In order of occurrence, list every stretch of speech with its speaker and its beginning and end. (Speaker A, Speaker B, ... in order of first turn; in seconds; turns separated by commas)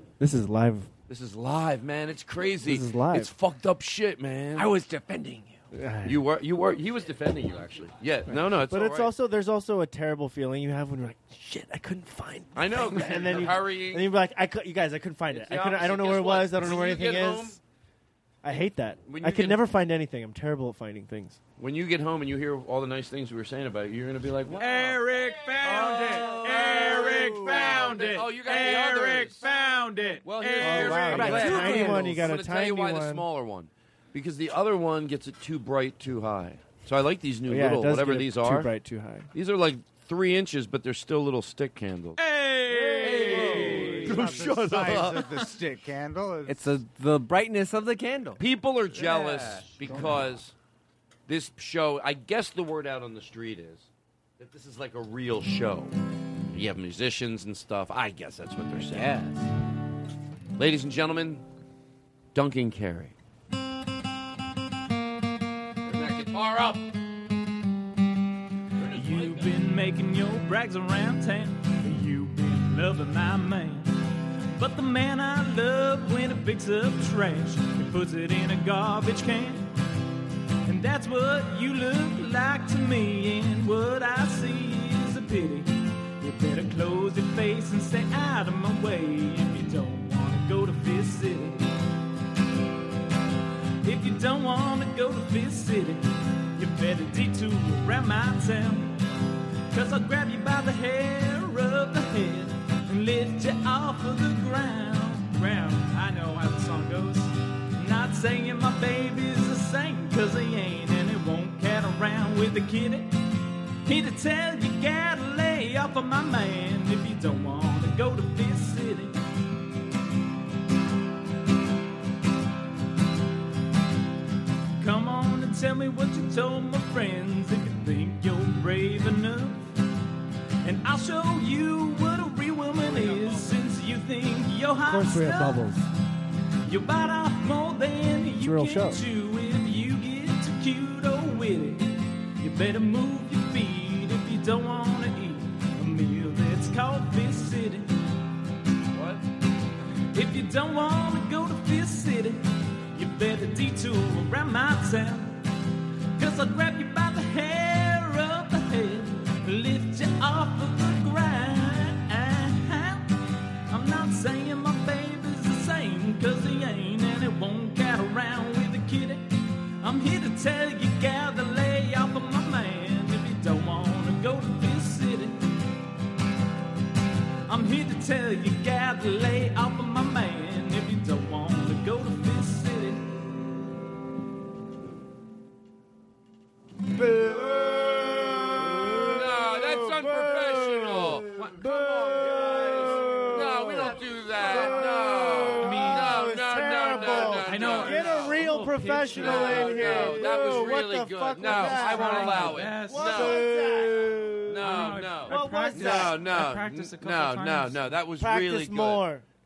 Speaker A: 0.2-0.9, Speaker B: 1.1-4.7, Speaker A: 2.6-3.3, Speaker C: 4.5-5.6, Speaker A: 5.7-6.2, Speaker B: 6.0-9.1, Speaker A: 8.5-17.6, Speaker B: 12.5-14.1, Speaker B: 15.3-17.6, Speaker A: 18.4-21.4, Speaker B: 19.1-19.6, Speaker B: 21.6-25.0, Speaker D: 24.5-31.9, Speaker B: 25.6-29.4, Speaker B: 30.2-38.7, Speaker A: 30.6-33.2, Speaker A: 37.5-39.3, Speaker B: 39.3-42.2, Speaker D: 42.2-44.1, Speaker E: 42.9-46.8, Speaker B: 43.0-45.3, Speaker C: 46.5-48.4, Speaker B: 48.4-50.5, Speaker B: 51.3-55.9, Speaker B: 56.5-59.1, Speaker C: 58.7-59.5, Speaker B: 60.6-61.4, Speaker B: 62.3-63.1, Speaker B: 65.8-66.9, Speaker B: 68.7-69.6, Speaker D: 68.9-73.9, Speaker D: 74.5-79.7, Speaker D: 80.6-91.7, Speaker D: 93.8-98.9, Speaker D: 99.7-113.1, Speaker D: 113.8-119.2, Speaker D: 124.8-129.7, Speaker D: 130.6-135.7, Speaker B: 132.8-133.7, Speaker A: 134.8-135.9, Speaker D: 136.6-147.9, Speaker A: 138.4-139.0, Speaker B: 148.9-149.2, Speaker D: 150.1-152.4, Speaker D: 152.9-155.4, Speaker D: 156.2-163.1, Speaker D: 163.7-169.3, Speaker D: 169.8-175.5, Speaker D: 177.5-183.1, Speaker A: 188.7-206.2, Speaker B: 188.9-198.5, Speaker D: 195.6-196.3, Speaker D: 197.3-200.0, Speaker B: 199.1-203.6, Speaker D: 201.5-203.4, Speaker B: 204.5-209.0, Speaker D: 204.6-208.0, Speaker A: 208.1-209.2